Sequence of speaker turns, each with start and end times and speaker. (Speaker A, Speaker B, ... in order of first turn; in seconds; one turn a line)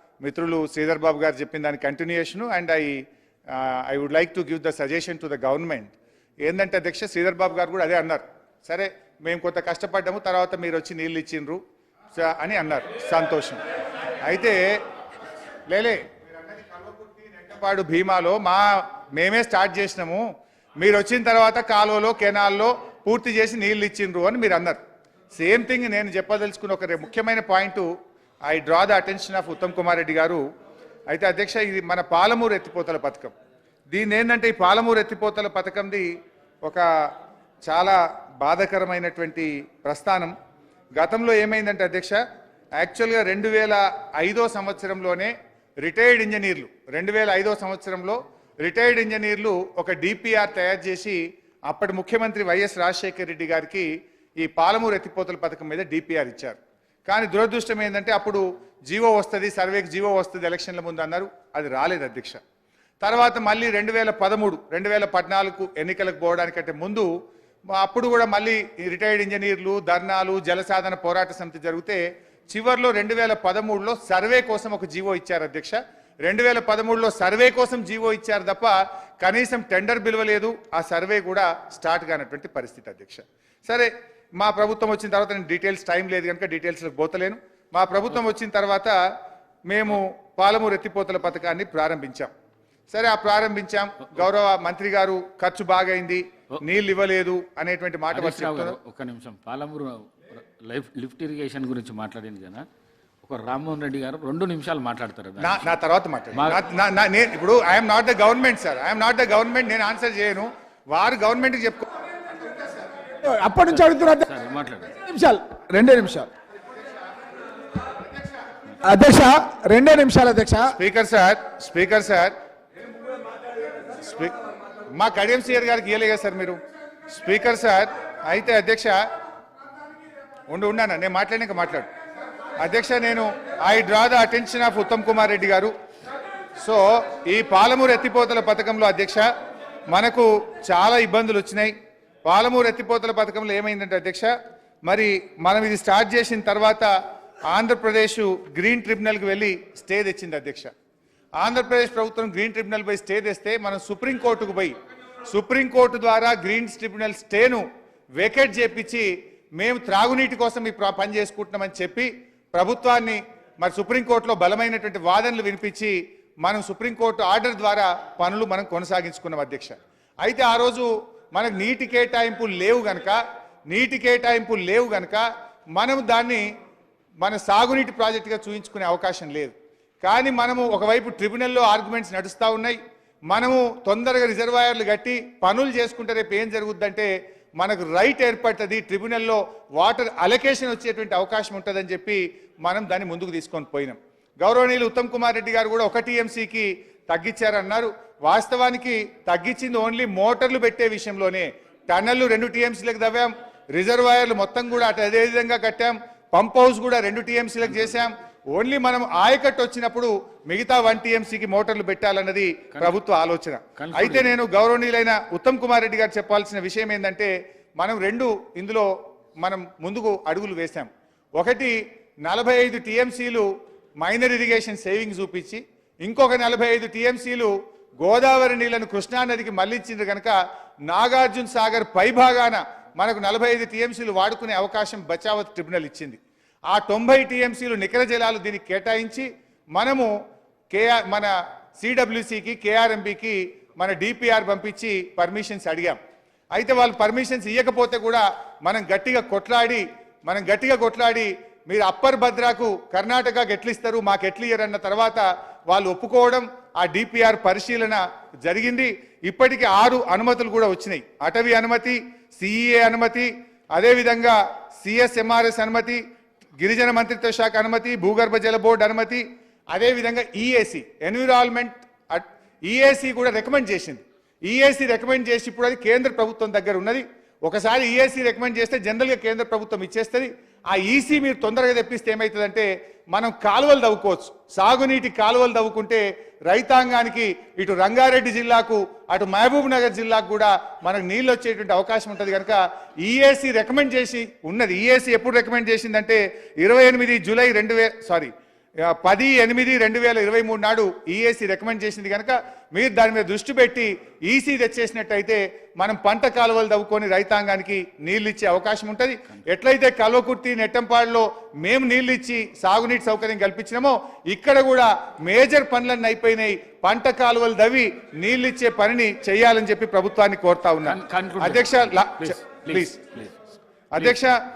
Speaker A: 0.2-11.6
Speaker A: 12.2-13.6
Speaker A: 14.2-14.7
Speaker A: 15.7-20.2
Speaker A: 20.8-24.8
Speaker A: 25.3-27.9
Speaker A: 28.5-30.4
Speaker A: 31.1-33.3
Speaker A: 33.9-36.1
Speaker A: 37.7-40.3
Speaker A: 41.0-42.2
Speaker A: 42.8-53.9
Speaker A: 54.4-62.4
Speaker A: 63.0-67.1
Speaker A: 67.7-89.0
Speaker A: 89.7-92.3
Speaker A: 92.9-98.8
Speaker B: 98.1-102.7
Speaker B: 103.2-105.7
Speaker A: 105.4-111.9
Speaker B: 106.3-106.6
Speaker C: 113.2-114.3
Speaker B: 113.7-115.0
Speaker C: 115.0-116.3
Speaker C: 118.8-120.7
Speaker A: 120.7-122.3
Speaker A: 124.0-124.3
Speaker A: 125.0-126.6
Speaker A: 127.1-129.0
Speaker A: 130.5-131.9
Speaker A: 132.6-135.7
Speaker A: 136.6-139.2
Speaker A: 139.9-141.7
Speaker A: 142.3-144.3
Speaker A: 144.9-146.9
Speaker A: 147.5-150.7
Speaker A: 151.4-154.8
Speaker A: 155.3-157.6
Speaker A: 158.2-175.2
Speaker A: 175.8-176.4
Speaker A: 177.2-182.8
Speaker A: 183.3-218.9
Speaker B: 213.8-214.3
Speaker A: 219.4-223.5
Speaker A: 224.0-230.3
Speaker A: 230.9-236.2
Speaker A: 236.7-240.1
Speaker A: 240.7-246.0
Speaker A: 246.6-266.0
Speaker A: 266.6-298.3
Speaker A: 298.9-323.0
Speaker B: 320.8-323.3
Speaker A: 323.9-324.3